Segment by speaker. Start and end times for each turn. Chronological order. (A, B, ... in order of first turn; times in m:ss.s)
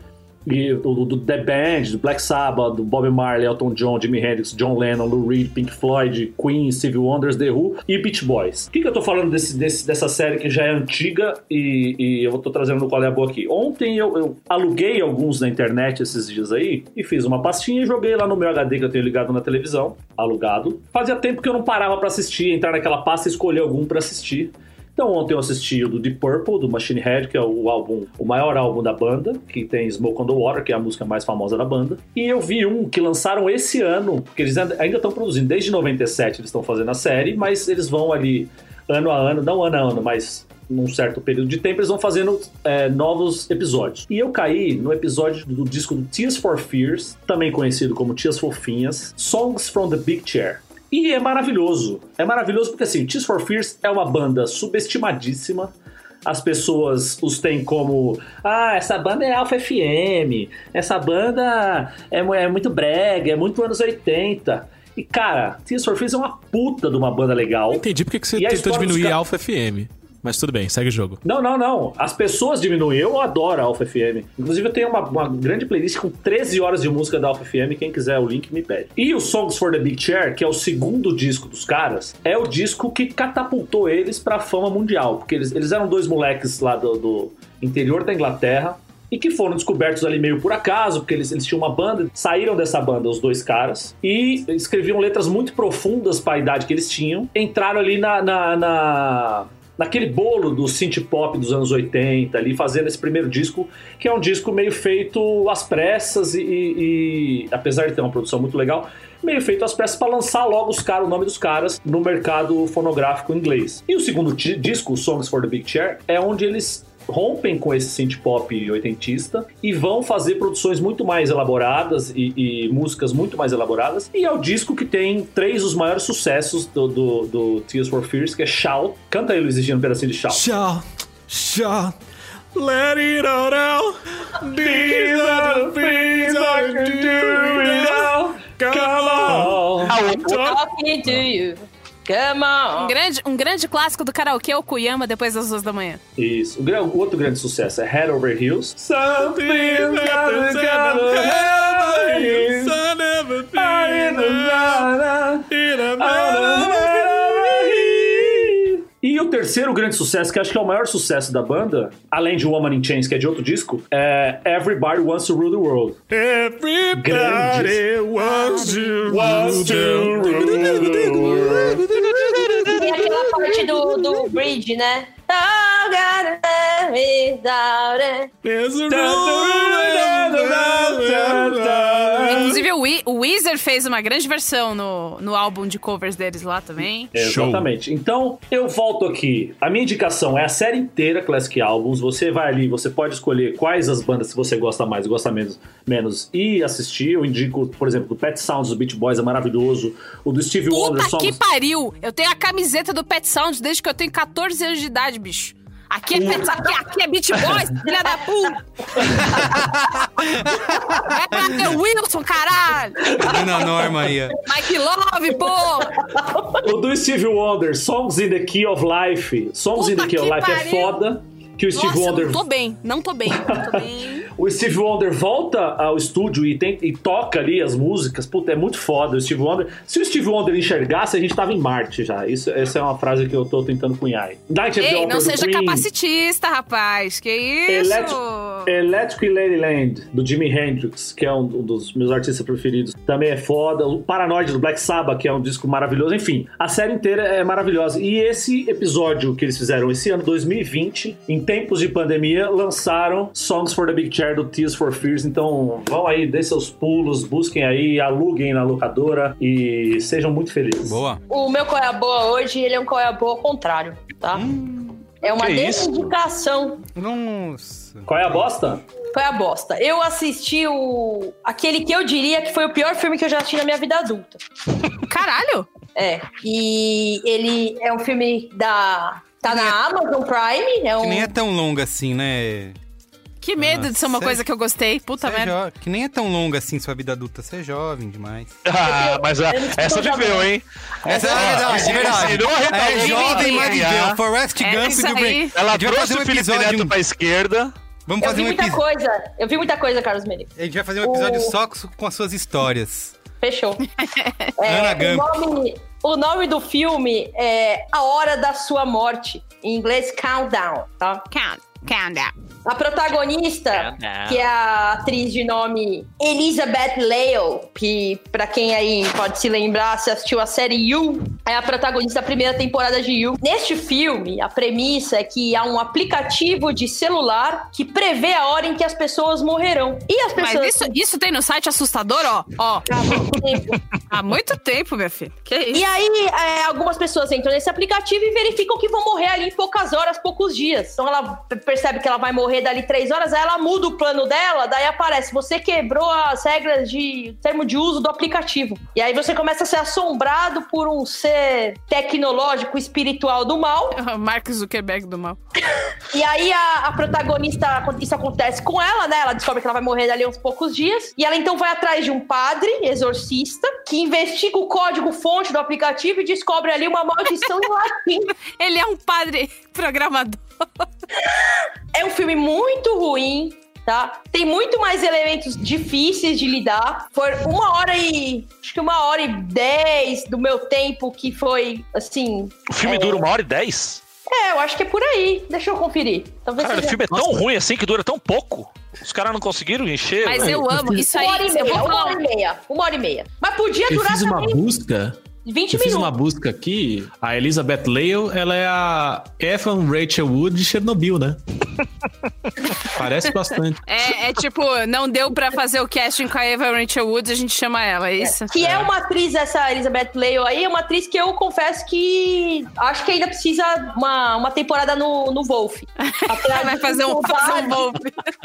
0:00.4-0:55.7 A
0:56.2-1:07.8 A
1:07.7-1:11.2 B
1:08.4-1:09.2 A
1:11.2-2:10.4 A
2:10.3-2:11.9 B
2:12.5-2:20.6 B
2:14.5-2:20.0 A
2:19.8-2:20.6 C
2:20.2-2:22.9 D
2:22.8-2:26.0 E
2:26.2-2:32.8 A
2:29.0-2:34.9 B
2:33.5-2:46.0 A
2:35.5-2:38.6 B
2:46.1-2:54.4 B
2:46.9-2:47.8 A
2:48.2-2:49.3 E
2:49.1-2:51.8 A
2:52.7-2:58.3 D
2:58.4-3:02.6 B
2:58.9-3:02.6 A
3:02.2-3:07.1 E
3:07.1-3:21.4 A
3:07.2-3:07.7 B
3:20.7-3:29.4 E
3:26.2-3:26.7 D
3:29.3-3:31.5 F
3:31.0-3:33.2 E
3:33.2-3:34.4 F
3:34.4-3:36.0 E
3:36.0-3:36.6 D
3:36.6-3:42.4 A
3:39.7-3:41.0 E
3:41.7-3:44.3 E
3:43.3-3:43.8 A
3:44.3-3:55.9 A
3:54.8-3:58.7 E
3:57.7-4:21.0 A
4:20.8-4:21.2 F
4:21.3-4:24.4 D
4:24.3-4:25.0 F
4:25.2-4:26.8 D
4:25.3-4:26.0 C
4:26.9-4:28.5 F
4:28.0-4:28.8 A
4:29.1-4:34.4 D
4:35.0-4:35.7 E
4:36.0-4:41.3 D
4:39.5-4:39.8 F
4:41.0-4:42.8 F
4:43.4-4:45.5 E
4:43.6-4:44.4 F
4:45.2-4:48.6 F
4:48.6-4:54.2 C
4:48.8-4:50.5 D
4:51.0-4:52.3 D
4:51.0-4:56.9 F
4:52.8-4:53.9 E
4:54.6-4:55.5 E
4:55.5-4:57.7 C
4:58.1-4:58.8 F
4:58.2-5:00.5 D
5:00.6-5:03.2 F
5:01.0-5:01.5 D
5:03.4-5:03.8 D
5:04.0-5:04.5 E
5:04.6-5:11.2 D
5:04.6-5:05.3 F
5:11.3-5:12.3 E
5:12.6-5:30.9 D
5:13.7-5:14.5 C
5:30.4-5:33.3 E
5:32.9-5:33.8 D
5:34.1-5:35.8 E
5:35.7-5:54.0 D
5:53.9-5:55.4 E
5:56.1-6:08.3 D
6:08.6-6:10.4 E
6:11.2-6:23.2 D
6:22.7-6:24.0 C
6:24.3-6:27.2 D
6:26.6-6:30.6 C
6:30.2-6:32.2 E
6:30.9-6:34.6 D
6:33.9-6:35.2 B
6:35.4-6:36.1 D
6:35.7-6:41.4 B
6:42.7-6:43.8 B
6:43.8-6:48.5 E
6:48.2-6:57.9 D
6:48.6-6:48.9 B
6:56.0-6:58.3 E